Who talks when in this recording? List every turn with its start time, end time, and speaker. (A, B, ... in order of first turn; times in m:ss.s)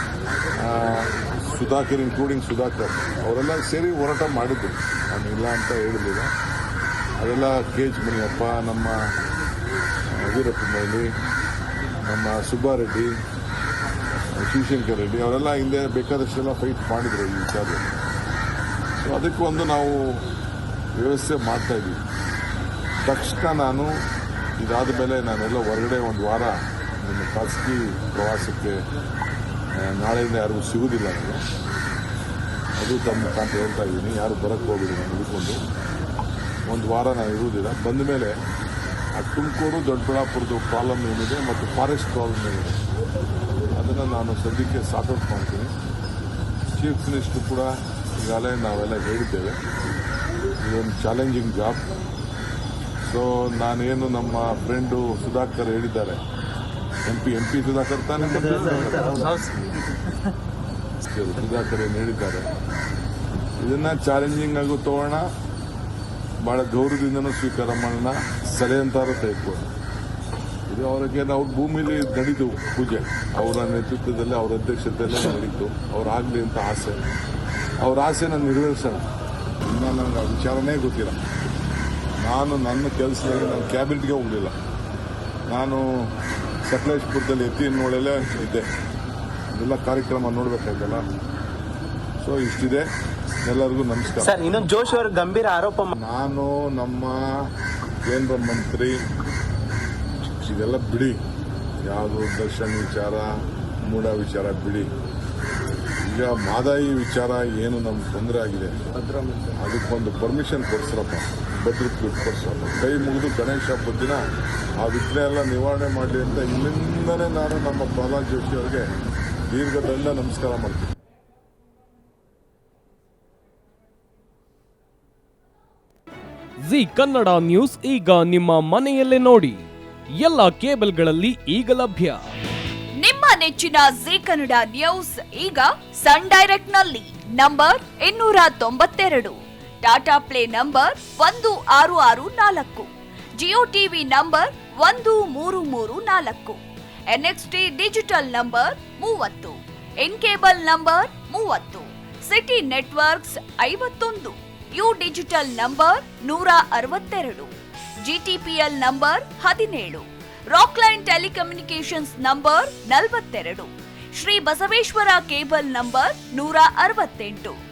0:00.6-0:06.3 A
0:07.2-0:09.0 A
0:10.1-0:11.1 A
0:12.0-0:13.1 A
0:14.3-0:17.9 A
0:19.0-0:20.2 A
0:21.0-0:22.0 A
0:23.0-0:24.0 A
0:24.6-0:28.8 A
0:29.8-0:31.4 A
0:32.8-0:35.6 A
0:36.7-0:38.3 A
0:39.1-0:42.8 A
0:43.8-0:45.7 A
0:46.7-0:49.6 A
0:50.6-0:51.8 A
0:53.0-0:56.2 A
0:57.0-0:59.4 A
0:58.4-0:59.5 B
1:01.0-1:02.5 A
1:03.6-1:05.3 A
1:06.4-1:09.7 A
1:10.7-1:17.0 A
1:17.8-1:19.0 A
1:19.6-1:21.2 A
1:22.2-1:24.5 A
1:25.5-1:25.8 A
1:26.7-1:28.7 A
1:29.5-1:31.0 A
1:32.2-1:32.8 A
1:33.4-1:34.5 A
1:34.2-1:35.9 B
1:36.0-1:37.2 A
1:38.0-1:39.0 A
1:40.2-1:41.2 A
1:41.8-1:43.3 A
1:43.8-1:44.9 A
1:46.0-1:54.2 A
1:54.8-1:58.9 A
1:59.5-2:00.9 A
2:06.6-2:12.2 C
2:13.0-2:22.9 D
2:23.4-2:26.6 D
2:27.1-2:47.6 D